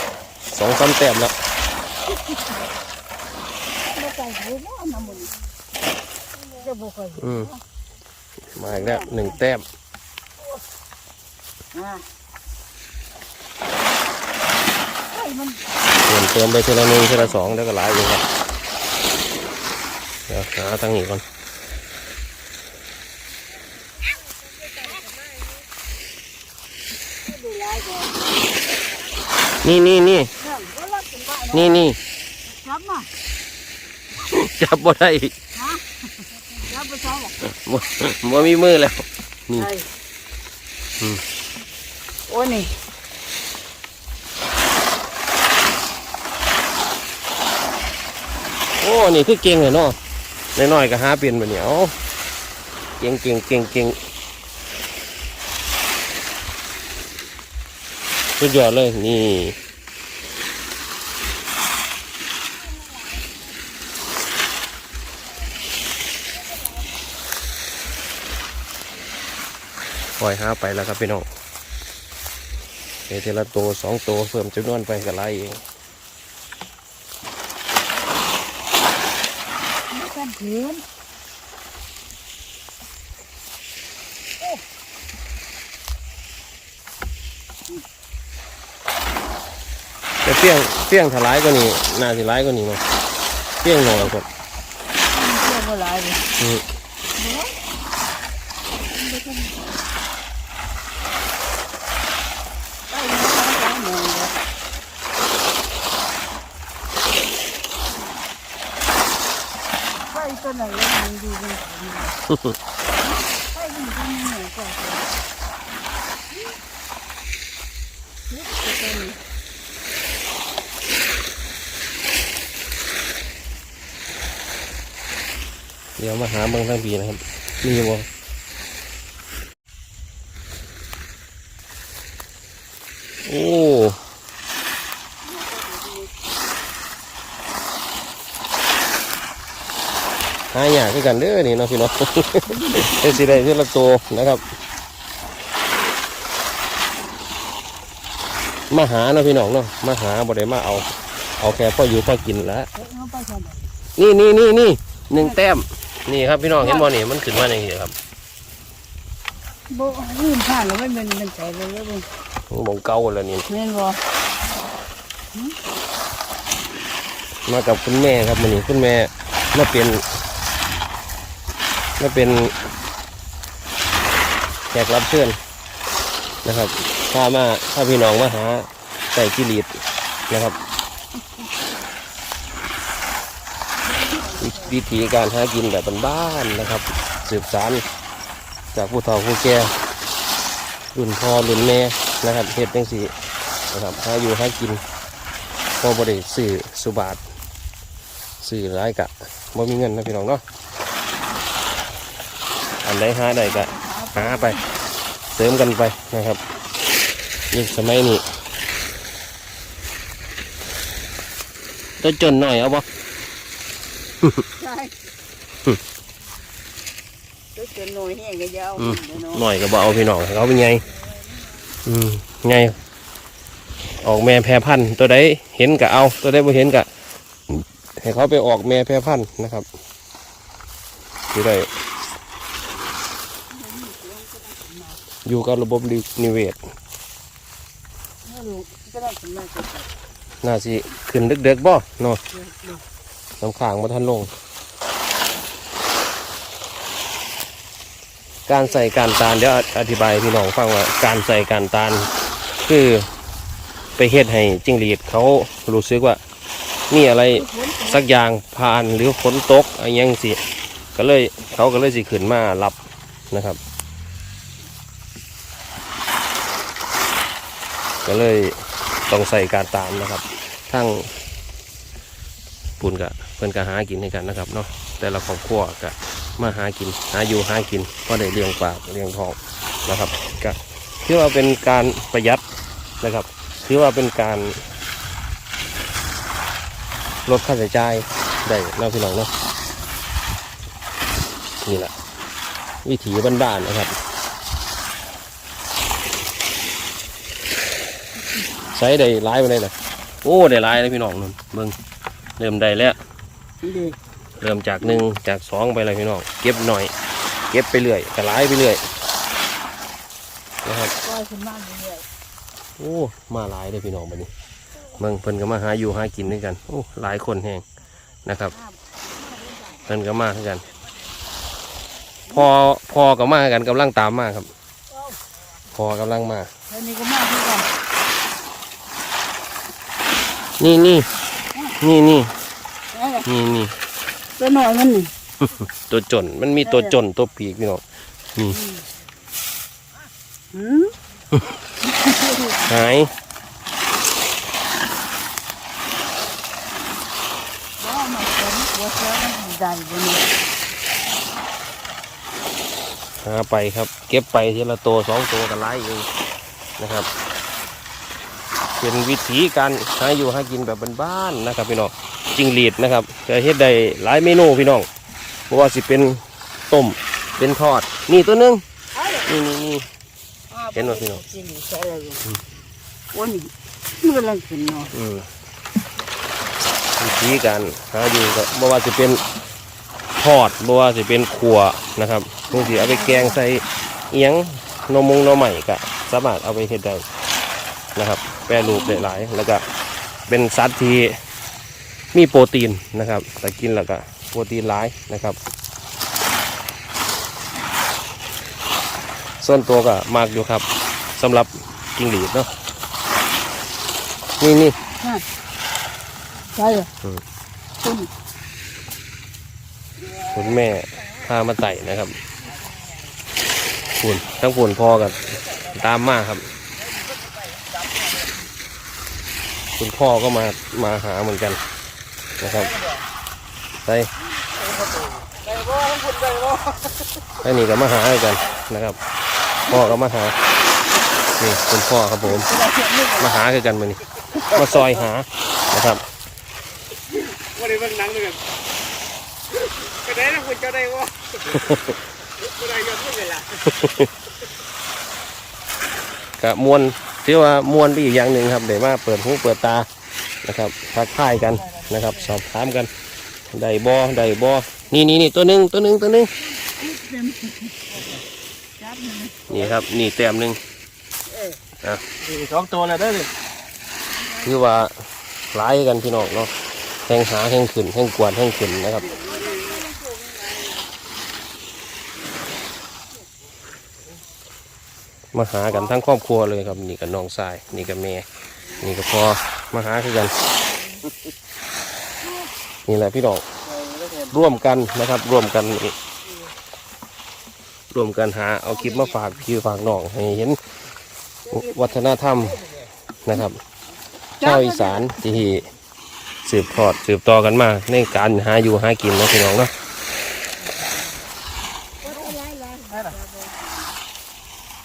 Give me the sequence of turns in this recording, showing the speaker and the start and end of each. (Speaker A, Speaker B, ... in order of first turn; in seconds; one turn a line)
Speaker A: 0.5-1.3
Speaker B: 3.8-5.3
Speaker B: 6.5-7.6
Speaker A: 7.2-7.5
Speaker A: 8.5-9.6
Speaker B: 8.6-9.4
Speaker B: 11.7-12.0
Speaker B: 15.1-15.6
Speaker A: 16.1-18.2
Speaker B: 17.1-17.4
Speaker A: 20.3-21.2
Speaker B: 27.2-28.6
Speaker A: 29.6-30.3
Speaker B: 30.4-31.9
Speaker A: 31.5-32.0
Speaker B: 32.5-33.1
Speaker A: 34.2-35.3
Speaker B: 35.5-37.4
Speaker A: 37.5-39.7
Speaker B: 39.5-39.9
Speaker B: 42.3-42.7
Speaker A: 48.8-50.0
Speaker A: 50.5-51.9
Speaker A: 53.0-54.0
Speaker A: 58.4-59.5
Speaker A: 70.2-71.3
Speaker A: 73.1-75.6
Speaker B: 79.9-80.8
Speaker A: 90.2-92.8
Speaker A: 93.6-94.2
Speaker B: 95.1-96.2
Speaker A: 96.4-96.6
Speaker B: 97.2-97.5
Speaker B: 98.9-99.6
Speaker B: 102.9-104.3
Speaker B: 110.1-112.2
Speaker A: 112.3-112.5
Speaker B: 113.0-115.1
Speaker B: 118.3-119.2
Speaker A: 126.0-128.1
Speaker A: 133.2-134.0
Speaker B: 135.2-136.1
Speaker A: 140.5-144.4
Speaker B: 142.5-143.4
Speaker A: 148.7-152.7
Speaker B: 152.7-153.7
Speaker A: 154.0-157.9
Speaker B: 156.6-156.9
Speaker B: 159.7-162.1
Speaker A: 162.5-163.5
Speaker B: 163.5-164.0
Speaker A: 167.5-170.0
Speaker A: 172.0-172.5
Speaker A: 174.7-175.4
Speaker A: 176.4-179.8
Speaker A: 180.3-180.6
Speaker B: 183.9-184.8
Speaker A: 184.4-187.8
Speaker A: 188.7-189.7
Speaker A: 190.9-193.1
Speaker A: 193.7-194.8
Speaker A: 195.8-197.2
Speaker A: 198.4-200.4
Speaker A: 202.8-204.6
Speaker B: 203.2-204.7
Speaker A: 205.3-206.4
Speaker A: 207.5-208.2
Speaker A: 212.0-212.8
Speaker B: 214.6-214.9
Speaker B: 217.5-219.5
Speaker A: 218.8-220.8
Speaker B: 220.8-221.6
Speaker A: 221.8-222.8
Speaker A: 224.0-226.9
Speaker A: 227.5-229.7
Speaker A: 231.3-231.7
Speaker B: 233.5-235.0
Speaker A: 235.2-236.6
Speaker B: 238.2-239.9
Speaker A: 240.4-242.2
Speaker B: 242.3-242.8
Speaker A: 243.4-244.3
Speaker A: 248.5-252.1
Speaker A: 252.7-253.1
Speaker A: 254.0-256.2
Speaker A: 256.9-260.4
Speaker B: 257.3-258.0
Speaker A: 260.9-262.8
Speaker A: 263.3-263.6
Speaker A: 268.0-271.1
Speaker A: 272.8-282.4
Speaker A: 283.0-284.6
Speaker A: 287.2-289.3
Speaker A: 291.6-291.9
Speaker A: 292.8-293.9
Speaker A: 298.7-301.8
Speaker A: 302.4-303.0
Speaker B: 303.6-304.0
Speaker A: 304.4-306.9
Speaker A: 307.5-308.8
Speaker A: 310.6-310.9
Speaker B: 311.0-312.0
Speaker A: 312.8-314.3
Speaker A: 315.0-317.6
Speaker A: 318.2-318.5
Speaker B: 318.5-319.8
Speaker A: 319.9-320.6
Speaker A: 322.3-324.5
Speaker A: 325.7-326.5
Speaker B: 326.7-327.7
Speaker A: 330.6-331.1
Speaker A: 331.8-332.3
Speaker B: 332.9-333.3
Speaker A: 333.2-333.7
Speaker B: 334.4-335.1
Speaker A: 335.8-337.8
Speaker B: 336.6-336.9
Speaker B: 338.5-338.8
Speaker B: 340.5-340.9
Speaker B: 341.9-342.6
Speaker A: 342.7-343.1
Speaker B: 347.8-350.2
Speaker A: 353.2-356.1
Speaker A: 356.8-357.1
Speaker A: 358.8-364.9
Speaker A: 365.5-368.6
Speaker B: 368.9-369.3
Speaker A: 369.2-369.9
Speaker B: 370.5-372.2
Speaker A: 370.7-371.2
Speaker B: 373.1-374.9
Speaker A: 374.9-375.3
Speaker A: 377.0-379.2
Speaker A: 380.2-387.0
Speaker B: 382.5-383.4
Speaker A: 387.9-389.6
Speaker B: 388.5-389.2
Speaker A: 390.3-391.1
Speaker A: 392.1-395.4
Speaker A: 399.4-402.5
Speaker A: 404.4-404.8
Speaker B: 406.5-406.9
Speaker B: 407.8-408.1
Speaker A: 410.3-412.1
Speaker A: 414.0-416.5
Speaker A: 419.8-421.6
Speaker A: 422.4-422.8
Speaker B: 425.5-426.3
Speaker A: 427.4-429.0
Speaker A: 429.7-430.3
Speaker A: 431.4-432.5
Speaker B: 432.2-433.3
Speaker A: 433.2-436.0
Speaker C: 437.6-438.4
Speaker C: 440.2-441.1
Speaker A: 441.5-441.9
Speaker C: 442.7-443.5
Speaker A: 443.6-444.1
Speaker A: 446.4-449.9
Speaker A: 450.4-452.9
Speaker A: 453.5-456.3
Speaker B: 456.6-458.0
Speaker B: 458.8-459.7
Speaker A: 459.5-460.6
Speaker B: 461.3-461.6
Speaker C: 462.2-463.3
Speaker A: 464.4-464.9
Speaker A: 465.5-466.5
Speaker A: 467.1-469.1
Speaker B: 468.9-470.8
Speaker A: 475.3-478.2
Speaker A: 478.8-480.3
Speaker A: 482.9-483.4
Speaker C: 483.9-484.2
Speaker A: 484.3-485.9
Speaker A: 487.9-490.6
Speaker A: 491.5-492.6
Speaker A: 493.2-493.6
Speaker B: 494.4-495.1
Speaker A: 494.4-495.7
Speaker A: 496.4-499.7
Speaker B: 502.0-503.9